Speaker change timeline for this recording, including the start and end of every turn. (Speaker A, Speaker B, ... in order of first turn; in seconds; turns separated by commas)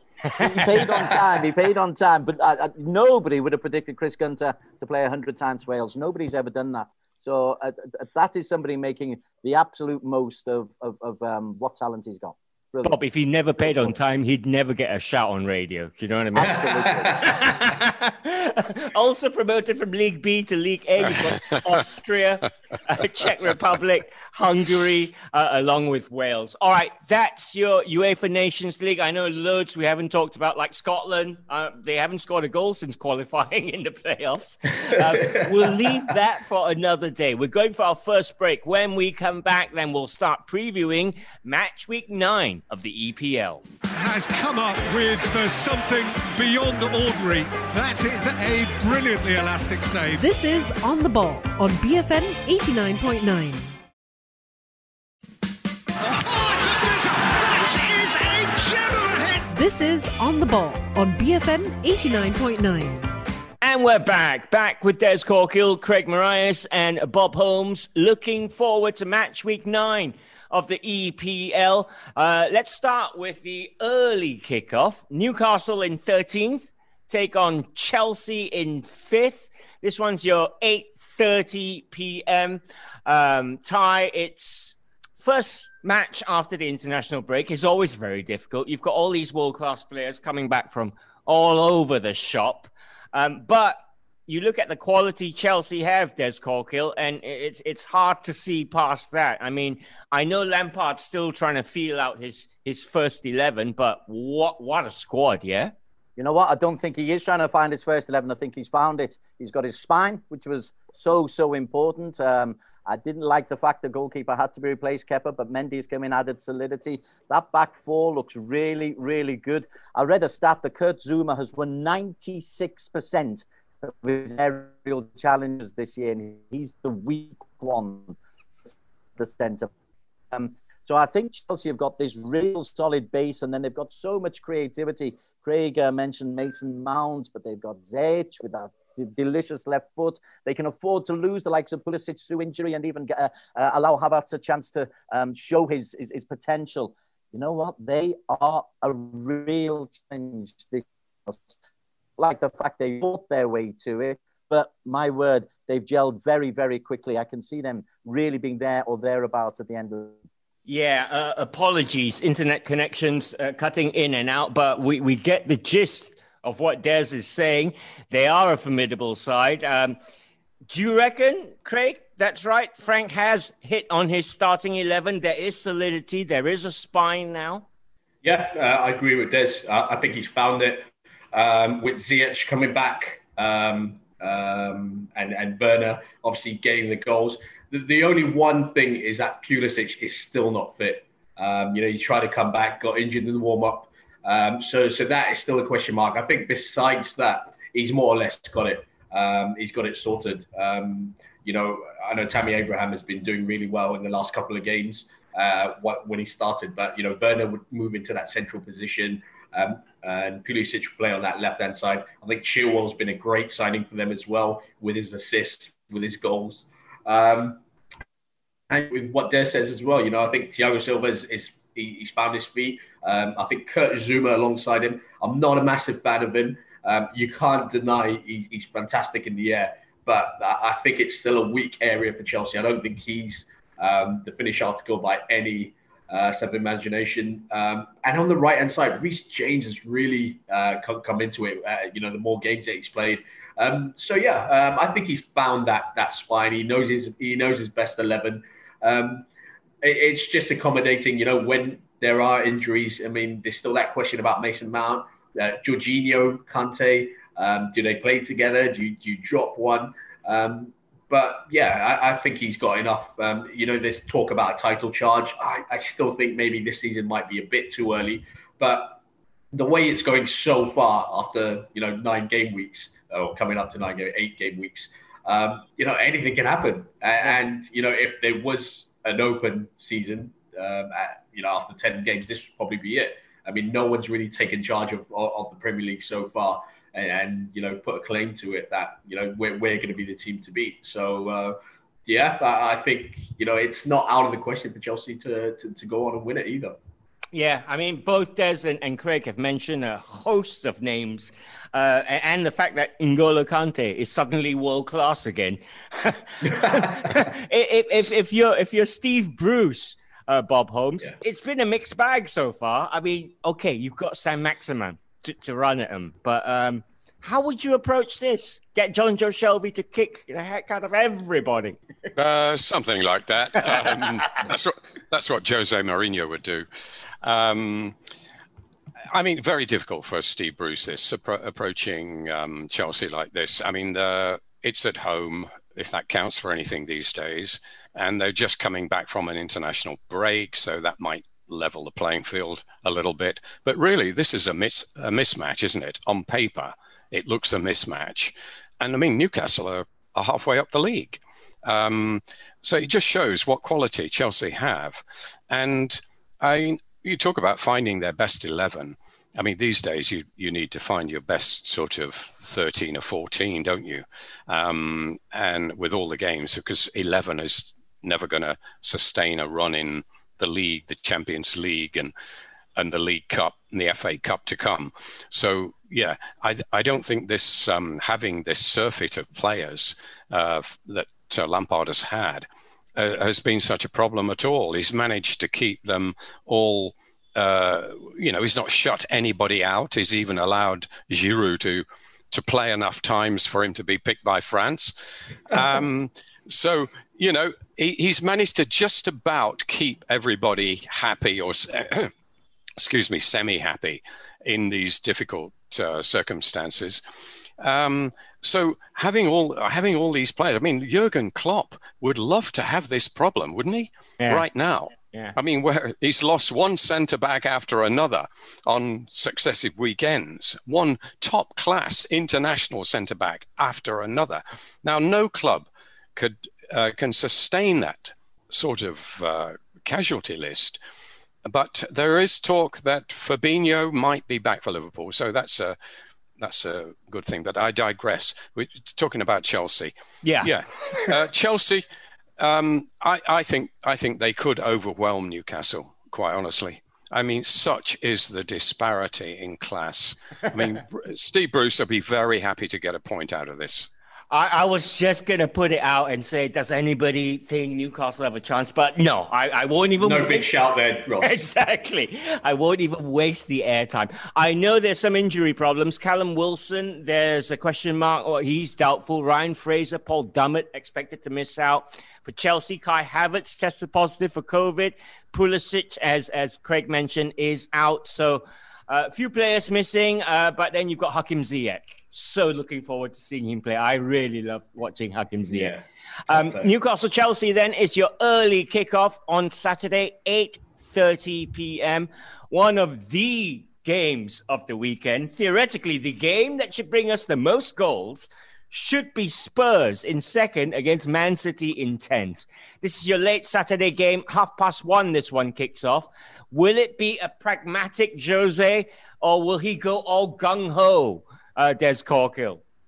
Speaker A: 0.4-13.0, Speaker B: 12.8-43.6, Speaker A: 16.4-17.4, Speaker C: 16.5-17.3, Speaker D: 44.0-50.3, Speaker E: 50.2-53.7, Speaker D: 56.1-59.5, Speaker E: 59.5-63.1, Speaker B: 63.6-105.7, Speaker A: 106.2-129.7, Speaker A: 130.3-151.6, Speaker A: 152.2-160.2, Speaker B: 160.7-170.0, Speaker B: 170.7-177.7, Speaker C: 178.2-217.6, Speaker C: 218.7-249.3, Speaker C: 249.8-269.0, Speaker C: 269.5-296.8, Speaker B: 297.3-321.8, Speaker F: 322.1-326.7, Speaker B: 323.6-324.2, Speaker F: 327.2-328.0, Speaker F: 329.1-372.1, Speaker F: 372.8-402.1, Speaker F: 402.8-430.8, Speaker B: 414.2-414.5, Speaker F: 431.4-435.8, Speaker F: 436.4-441.8, Speaker B: 440.2-441.1, Speaker F: 442.4-453.9, Speaker B: 454.3-460.6, Speaker C: 460.0-461.4, Speaker B: 461.2-485.8, Speaker C: 485.5-486.7, Speaker B: 486.3-512.6